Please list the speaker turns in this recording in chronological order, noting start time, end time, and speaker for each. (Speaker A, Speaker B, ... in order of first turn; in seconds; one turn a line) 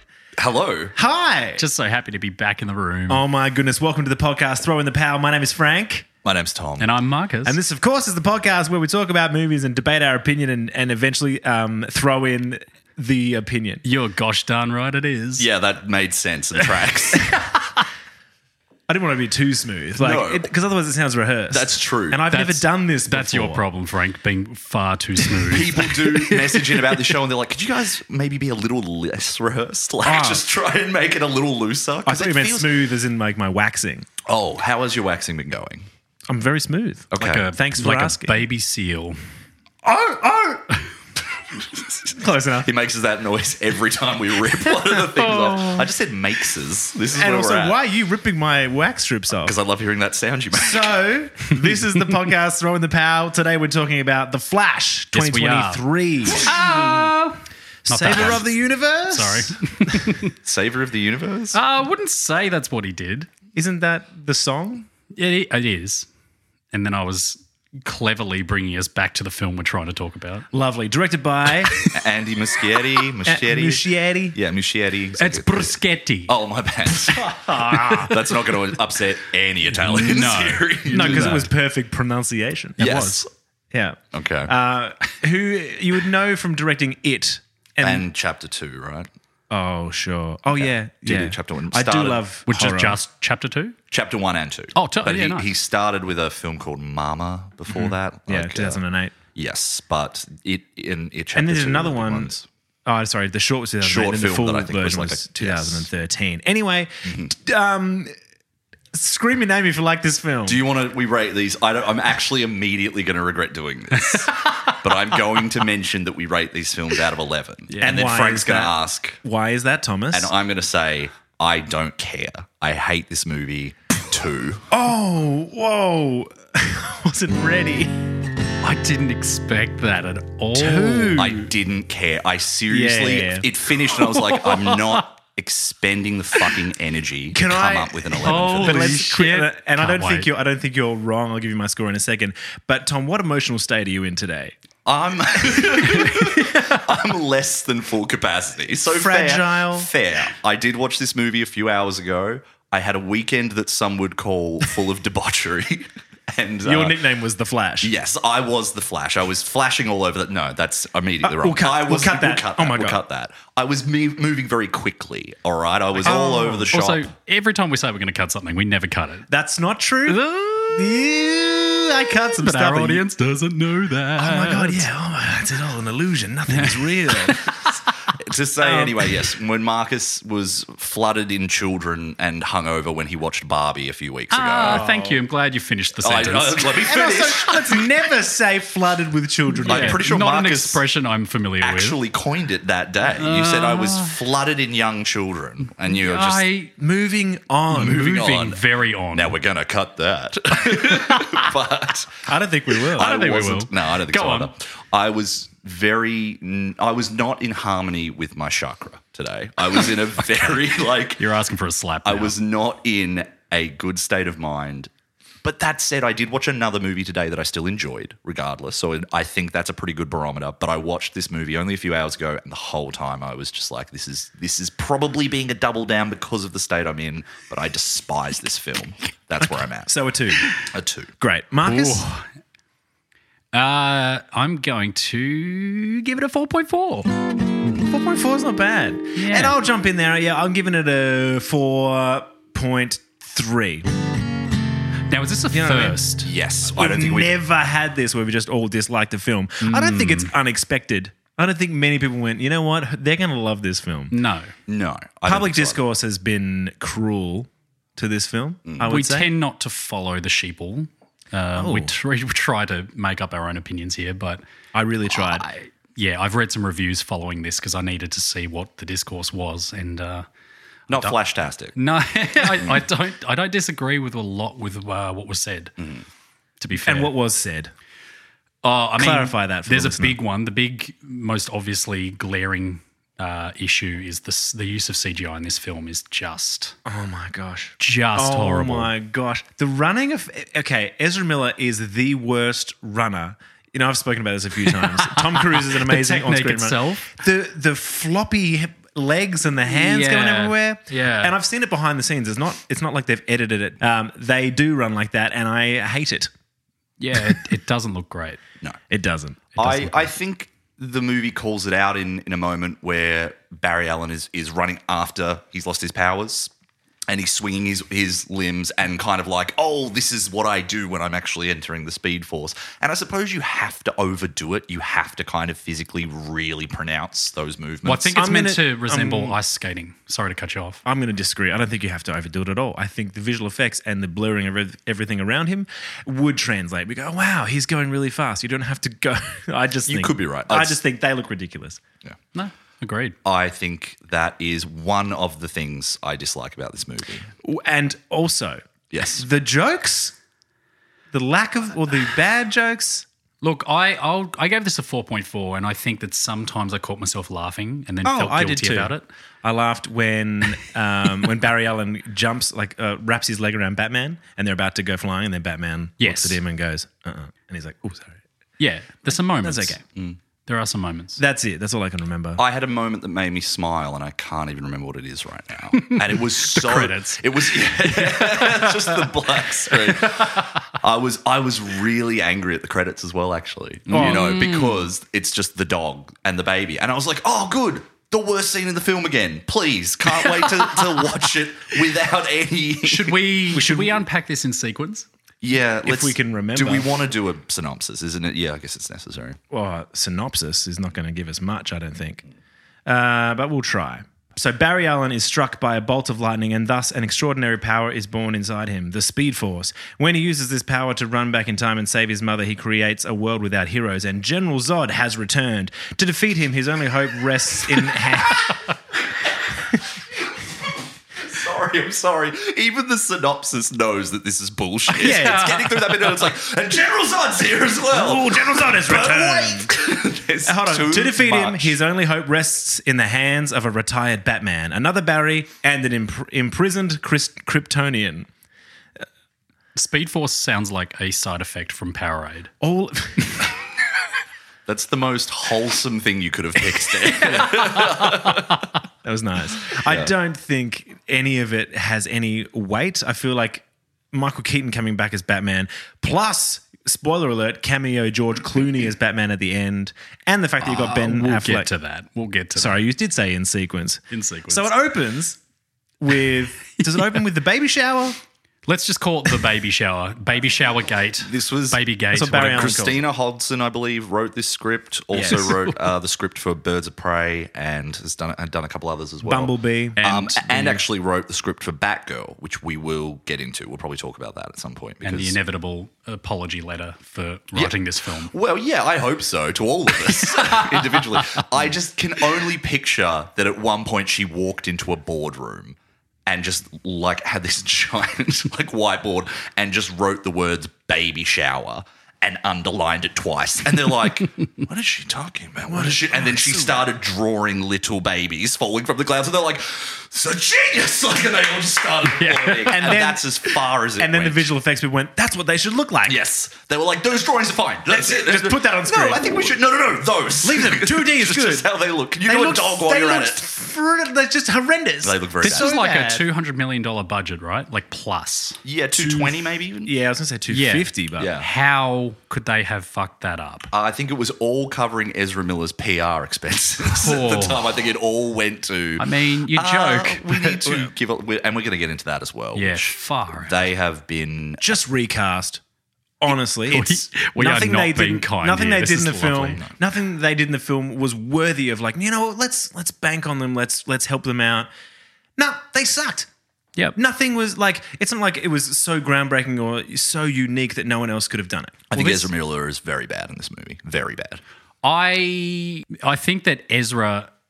Speaker A: 0.4-0.9
Speaker B: 0.9-1.6
Speaker C: 1.6-3.2
Speaker B: 3.1-6.1
Speaker A: 6.2-6.9
Speaker C: 6.8-7.6
Speaker B: 7.5-13.8
Speaker C: 13.8-15.5
Speaker A: 15.4-17.4
Speaker B: 18.9-23.6
Speaker A: 20.0-20.5
Speaker A: 21.5-22.2
Speaker C: 22.3-27.1
Speaker A: 25.5-32.7
Speaker B: 30.1-30.4
Speaker B: 32.0-34.1
Speaker A: 34.3-35.9
Speaker B: 36.3-38.4
Speaker A: 37.1-37.5
Speaker C: 37.2-39.2
Speaker A: 39.9-40.6
Speaker A: 41.6-47.8
Speaker B: 42.1-42.7
Speaker C: 45.3-45.8
Speaker B: 47.1-49.6
Speaker A: 49.4-51.1
Speaker B: 50.5-57.0
Speaker C: 55.1-58.5
Speaker B: 57.9-60.0
Speaker A: 58.1-58.4
Speaker C: 59.1-60.3
Speaker A: 60.4-61.6
Speaker C: 61.5-63.3
Speaker B: 63.5-64.9
Speaker C: 65.1-66.1
Speaker C: 66.7-70.5
Speaker B: 70.5-71.9
Speaker A: 71.9-81.5
Speaker B: 73.2-74.4
Speaker C: 75.2-76.3
Speaker C: 76.9-78.3
Speaker B: 77.3-78.1
Speaker C: 79.8-81.5
Speaker B: 80.9-83.1
Speaker C: 82.8-83.2
Speaker A: 82.8-83.3
Speaker B: 83.7-88.0
Speaker A: 84.1-84.5
Speaker A: 87.8-89.1
Speaker B: 89.5-93.0
Speaker A: 90.5-92.2
Speaker C: 92.5-93.8
Speaker A: 93.9-98.8
Speaker C: 94.8-95.5
Speaker B: 97.7-99.2
Speaker A: 99.3-102.4
Speaker B: 101.3-108.1
Speaker A: 103.8-105.9
Speaker A: 107.0-107.3
Speaker B: 108.9-110.6
Speaker A: 110.5-119.2
Speaker C: 114.0-114.8
Speaker C: 117.7-118.0
Speaker B: 117.8-120.3
Speaker A: 120.1-124.7
Speaker B: 124.7-128.1
Speaker C: 128.6-131.4
Speaker B: 130.5-131.4
Speaker A: 131.2-138.9
Speaker B: 132.7-133.5
Speaker C: 134.2-134.7
Speaker B: 137.3-144.6
Speaker C: 138.2-140.3
Speaker A: 144.9-157.0
Speaker B: 145.4-146.1
Speaker C: 146.1-146.6
Speaker B: 148.9-149.9
Speaker B: 156.7-157.9
Speaker A: 157.8-167.1
Speaker B: 161.2-163.0
Speaker B: 166.0-166.7
Speaker C: 166.1-169.3
Speaker B: 169.3-173.0
Speaker C: 170.1-171.0
Speaker C: 172.1-174.9
Speaker B: 174.2-177.5
Speaker C: 176.6-177.9
Speaker A: 178.2-184.9
Speaker B: 178.6-179.0
Speaker C: 184.3-186.8
Speaker B: 184.6-185.2
Speaker A: 186.0-187.9
Speaker B: 186.8-190.0
Speaker C: 189.6-192.0
Speaker A: 189.6-190.8
Speaker A: 191.6-196.4
Speaker C: 193.0-194.2
Speaker C: 195.9-196.7
Speaker B: 196.8-198.1
Speaker C: 197.7-199.4
Speaker A: 197.8-198.6
Speaker A: 199.1-202.3
Speaker C: 200.8-201.5
Speaker B: 202.2-203.6
Speaker A: 202.9-211.2
Speaker C: 203.0-204.5
Speaker C: 211.2-212.4
Speaker A: 212.1-214.9
Speaker A: 215.4-229.9
Speaker B: 229.9-230.5
Speaker A: 230.6-231.1
Speaker B: 231.2-232.1
Speaker C: 231.6-232.3
Speaker C: 233.5-237.1
Speaker B: 237.6-243.9
Speaker C: 239.2-239.6
Speaker C: 245.1-246.3
Speaker B: 245.5-246.0
Speaker A: 246.2-247.4
Speaker B: 246.7-254.1
Speaker C: 249.6-250.3
Speaker C: 254.1-254.5
Speaker A: 254.7-255.8
Speaker B: 255.3-259.3
Speaker A: 258.6-258.9
Speaker C: 258.9-264.4
Speaker B: 261.6-261.9
Speaker B: 264.7-265.5
Speaker C: 265.2-270.3
Speaker A: 270.9-271.8
Speaker C: 271.8-275.7
Speaker A: 272.6-272.8
Speaker A: 275.8-276.0
Speaker C: 276.6-277.1
Speaker B: 276.8-277.7
Speaker C: 278.6-286.8
Speaker B: 279.0-280.2
Speaker B: 286.9-306.3
Speaker C: 287.8-288.9
Speaker C: 294.6-297.2
Speaker C: 299.7-301.4
Speaker C: 307.0-308.4
Speaker B: 308.9-309.9
Speaker A: 309.6-316.5
Speaker C: 309.6-310.0
Speaker A: 317.1-328.2
Speaker C: 327.9-330.8
Speaker B: 328.1-329.4
Speaker B: 330.9-341.8
Speaker A: 339.9-340.8
Speaker C: 342.3-343.2
Speaker A: 343.2-347.3
Speaker B: 347.4-348.6
Speaker A: 348.9-349.2
Speaker B: 349.2-350.1
Speaker B: 351.1-353.1
Speaker C: 353.4-359.1
Speaker B: 358.0-368.2
Speaker C: 366.0-366.4
Speaker C: 368.6-369.8
Speaker B: 369.1-369.8
Speaker C: 370.4-371.2
Speaker B: 371.2-372.4
Speaker A: 372.4-393.2
Speaker C: 375.7-379.1
Speaker C: 379.7-380.6
Speaker C: 383.9-384.9
Speaker B: 383.9-384.4
Speaker C: 392.8-395.1
Speaker B: 393.5-394.0
Speaker A: 395.4-399.4
Speaker B: 395.8-396.9
Speaker B: 399.5-402.2
Speaker B: 402.9-418.6
Speaker A: 421.2-431.8
Speaker B: 425.0-426.1
Speaker C: 425.0-425.7
Speaker B: 427.9-429.8
Speaker B: 430.4-438.3
Speaker C: 439.8-442.5
Speaker B: 442.6-443.5
Speaker A: 444.7-448.6
Speaker C: 447.5-448.3
Speaker B: 449.0-461.7
Speaker A: 449.7-450.1
Speaker C: 460.6-462.8
Speaker B: 462.6-465.4
Speaker C: 464.1-464.7
Speaker B: 466.0-468.2
Speaker C: 468.7-472.8
Speaker A: 471.2-471.8
Speaker B: 472.1-473.0
Speaker A: 472.4-485.4
Speaker B: 475.1-475.6
Speaker C: 475.2-475.8
Speaker B: 479.2-480.8
Speaker C: 480.0-480.7
Speaker C: 485.0-488.3
Speaker A: 487.6-514.5
Speaker C: 490.1-491.2
Speaker B: 505.7-506.9
Speaker C: 512.1-513.0
Speaker B: 512.7-513.4
Speaker B: 514.0-516.2
Speaker A: 516.1-523.5
Speaker B: 517.9-519.6
Speaker B: 520.4-521.7
Speaker B: 522.3-526.2
Speaker A: 525.0-525.7
Speaker C: 525.4-528.6
Speaker A: 528.6-529.9
Speaker B: 529.0-531.3
Speaker C: 530.5-533.7
Speaker A: 531.2-531.5
Speaker A: 533.7-544.8
Speaker C: 536.9-537.6
Speaker C: 539.0-540.9
Speaker C: 542.5-543.6
Speaker B: 544.6-545.6
Speaker B: 546.2-554.7
Speaker C: 546.7-549.6
Speaker B: 555.4-556.3
Speaker B: 557.0-562.3
Speaker A: 561.9-564.4
Speaker C: 564.8-567.3